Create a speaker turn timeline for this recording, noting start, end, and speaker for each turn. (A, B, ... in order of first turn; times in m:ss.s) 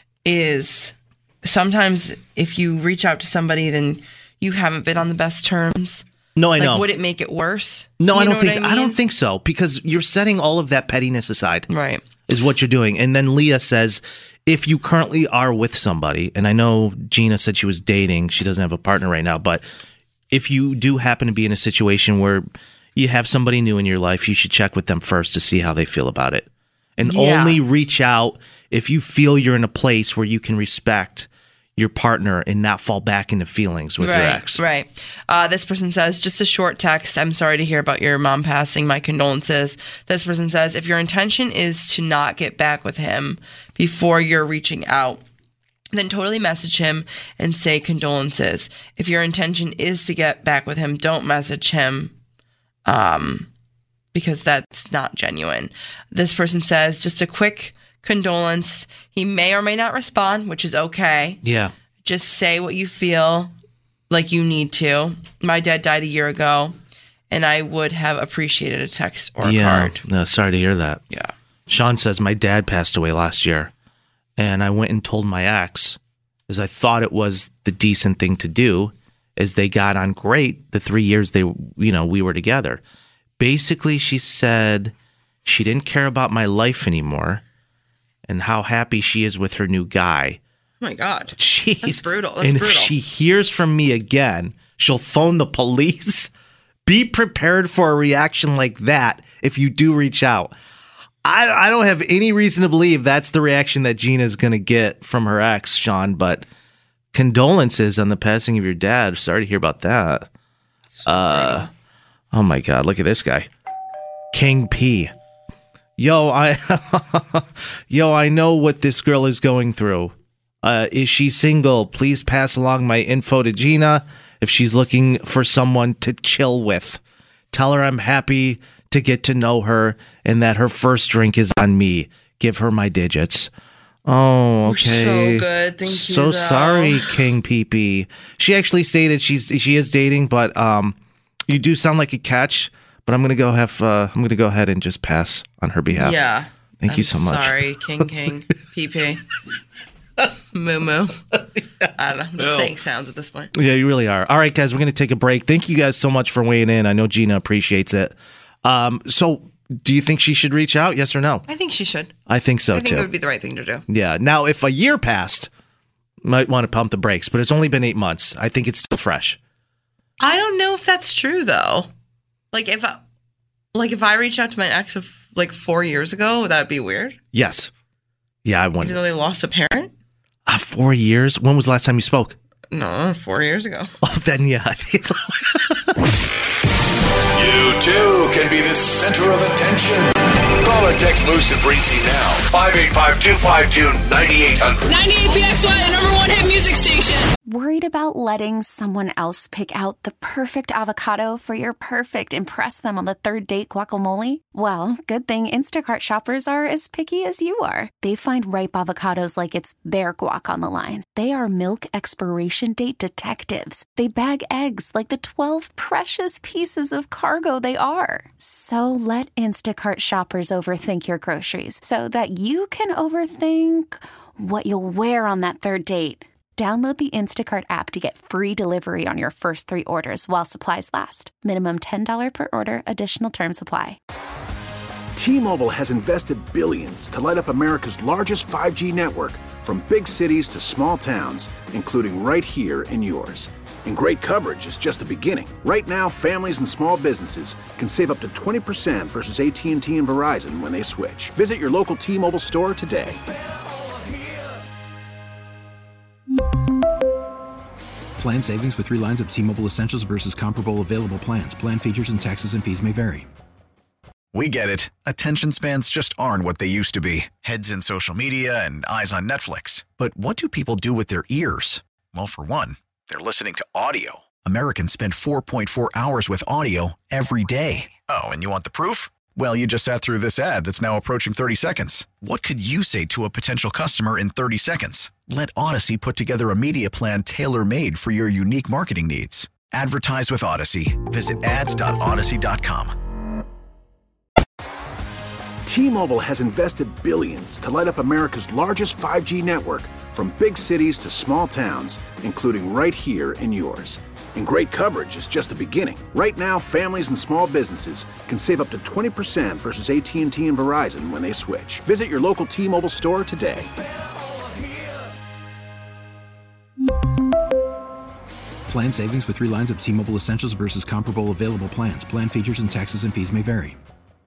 0:00.2-0:06.0 A
0:06.4-0:06.8 B
0:06.6-0:09.0 A
0:08.0-0:11.7 B
0:11.7-0:12.0 A
0:12.3-0:19.6 B
0:20.3-0:22.4 B
0:23.0-0:26.5 B
0:27.0-0:34.6 B
0:27.0-0:27.6 A
0:34.0-0:45.2 A
0:45.9-0:52.1 A
0:52.8-0:53.5 A
0:54.1-1:01.4 A
1:01.4-1:01.7 B
1:02.0-1:03.5 A
1:04.1-1:06.8 A
1:07.3-1:10.0 A
1:09.4-1:11.0 B
1:11.7-1:13.7 B
1:14.4-1:16.0 B
1:16.5-1:22.8 B
1:23.4-1:24.9 B
1:25.4-1:27.4 B
1:28.3-1:30.4 B
1:30.8-1:32.9 A
1:31.4-1:36.3 B
1:36.8-1:40.5 B
1:41.2-1:46.4 B
1:47.1-1:50.3 B
1:50.9-1:51.7 A
1:51.0-1:51.7 B
1:52.3-1:53.5 B
1:54.3-1:55.1 B
1:56.0-2:07.0 B
2:07.5-2:13.5 B
2:14.0-2:21.0 B
2:14.6-2:17.1 A
2:21.5-2:26.2 B
2:25.9-2:29.2 A
2:26.8-2:27.6 B
2:30.5-2:31.2 A
2:31.8-2:32.7 B
2:32.0-2:33.5 A
2:33.5-2:41.4 B
2:41.5-2:42.1 A
2:42.3-2:43.1 B
2:42.7-2:43.8 A
2:43.9-2:45.5 B
2:46.2-2:49.4 B
2:50.2-2:51.9 A
2:52.5-2:53.0 A
2:53.7-2:57.2 A
2:57.3-2:57.7 B
2:58.4-2:59.0 B
2:58.8-2:59.9 A
3:00.5-3:02.3 B
3:02.7-3:03.9 A
3:04.0-3:05.8 B
3:07.4-3:15.1 C
3:14.9-3:17.3 D
3:17.4-3:54.0 E
3:55.2-4:13.2 F
4:18.2-4:23.3 G
4:24.3-4:52.9 H
4:55.6-5:13.7 F
5:18.7-5:23.8 G